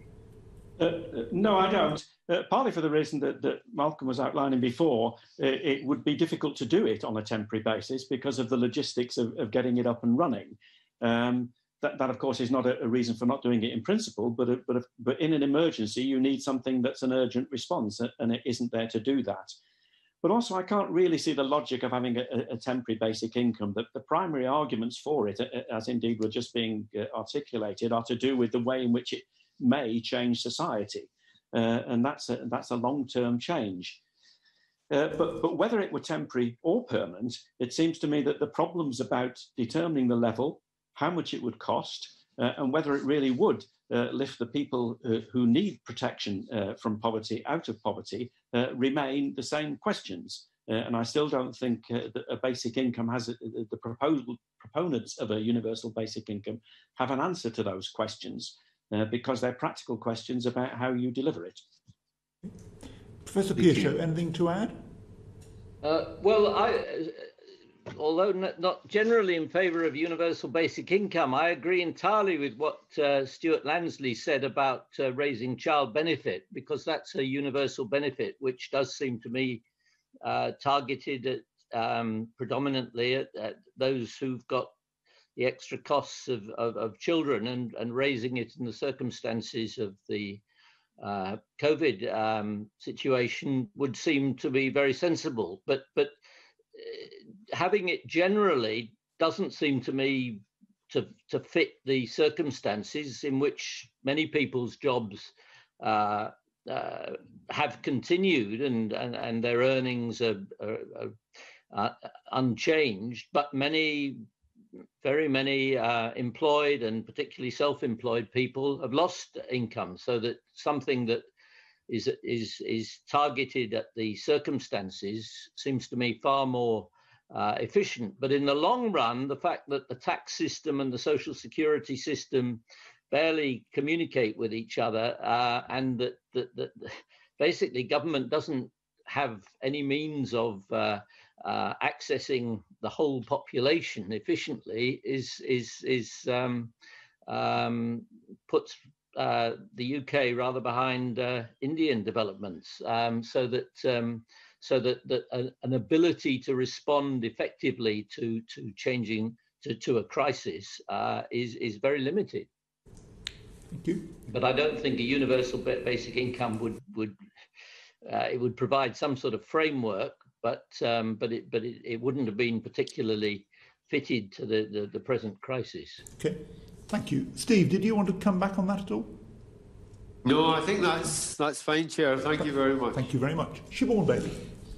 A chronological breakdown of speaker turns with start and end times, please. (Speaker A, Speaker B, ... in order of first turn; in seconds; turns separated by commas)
Speaker A: 0.8-19.6, Speaker A: 20.2-34.0, Speaker A: 34.9-61.6, Speaker B: 63.2-64.8, Speaker C: 65.8-67.3, Speaker C: 67.9-79.6, Speaker C: 80.2-84.7, Speaker C: 85.4-90.4, Speaker C: 91.0-96.1, Speaker C: 96.8-111.2, Speaker C: 111.7-114.2, Speaker C: 115.0-121.2, Speaker C: 121.9-146.7, Speaker C: 147.3-162.5, Speaker B: 163.7-164.1, Speaker C: 164.3-167.2, Speaker C: 168.0-176.0, Speaker B: 176.2-179.2, Speaker D: 180.2-183.0, Speaker B: 182.9-184.5